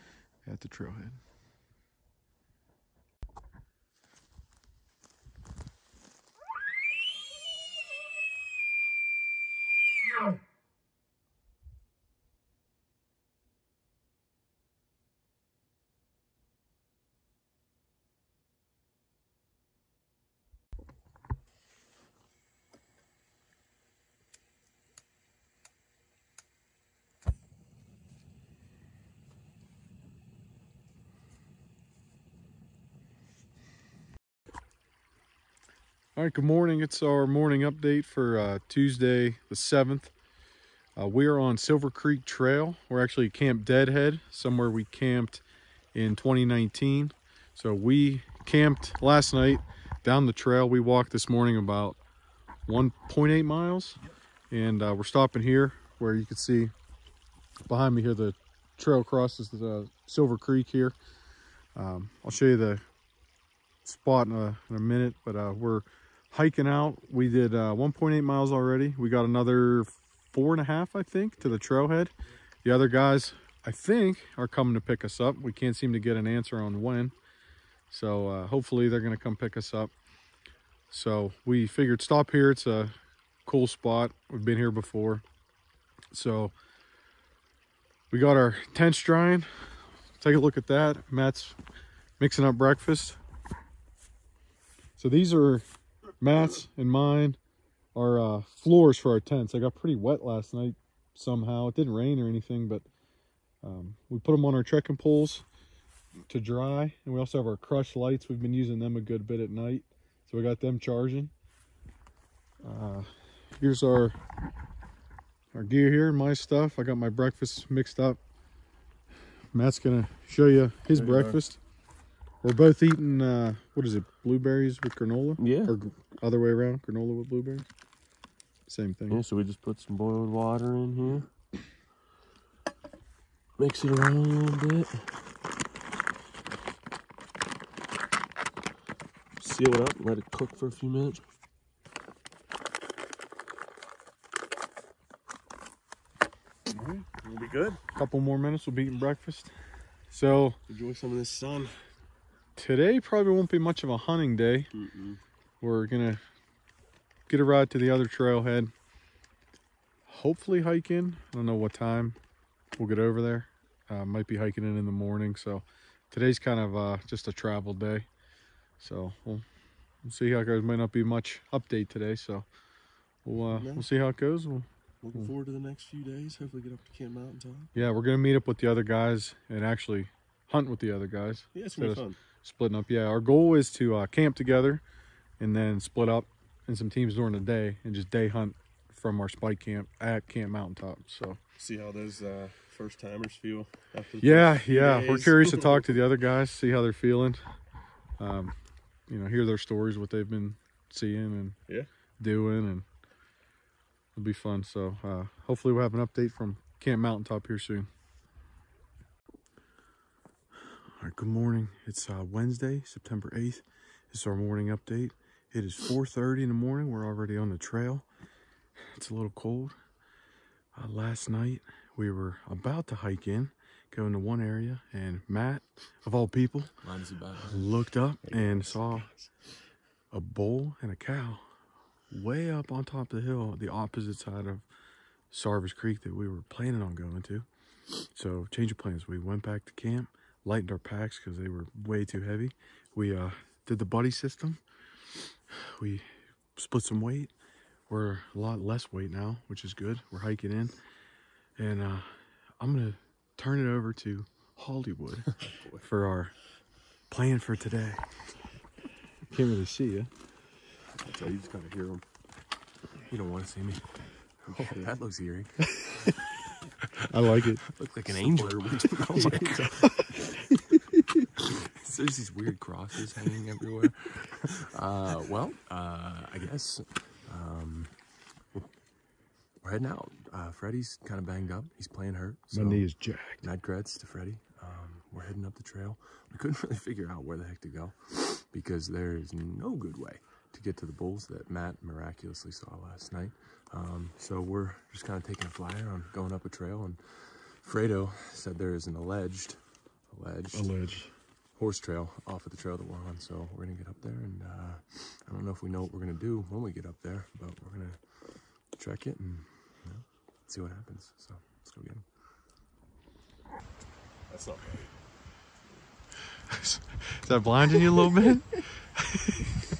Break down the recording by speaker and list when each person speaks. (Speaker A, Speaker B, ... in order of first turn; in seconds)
Speaker A: 0.4-1.2, 36.1-40.1, 41.0-45.4, 45.9-52.0, 52.6-56.7, 57.6-61.0, 61.7-62.8, 63.8-72.1, 72.6-77.1, 77.9-79.9, 80.9-85.2, 86.1-86.5, 88.1-91.6, 92.2-93.2, 95.0-95.7, 96.2-97.4, 97.9-102.8, 103.6-105.4, 106.3-111.3, 112.6-114.2, 115.5-118.2, 119.5-121.6, 122.4-127.7, 128.7-129.2, 147.9-149.5, 150.1-150.6, 152.6-154.7, 155.6-156.2, 157.3-158.7, 160.1-162.2, 162.7-168.1, 168.8-169.4, 170.0-172.5, 173.2-175.3, 177.7-184.8, 185.4-191.4, 194.2-197.5, 198.2-198.6, 199.1-201.6, 202.2-202.8, 204.2-207.9, 210.6-218.1, 218.8-219.8, 220.7-226.8, 227.4-229.1, 230.1-231.5, 232.1-234.7, 235.3-237.5, 238.0-247.3, 247.9-250.8, 251.6-256.4, 257.1-258.1, 259.3-260.1, 267.0-267.6, 282.5-283.5, 300.5-301.1, 316.5-319.5
Speaker B: 120.9-121.4, 125.4-125.7, 129.1-131.3, 133.6-135.2, 139.4-141.2, 146.7-147.8, 150.7-151.8, 154.7-155.2, 173.5-173.9, 175.0-177.8, 181.5-182.2, 191.6-195.9, 260.9-262.0, 268.1-269.6, 314.3-314.9
Speaker C: 226.8-228.8, 263.1-265.8, 267.7-270.0, 271.7-278.7, 279.6-300.8, 301.6-312.1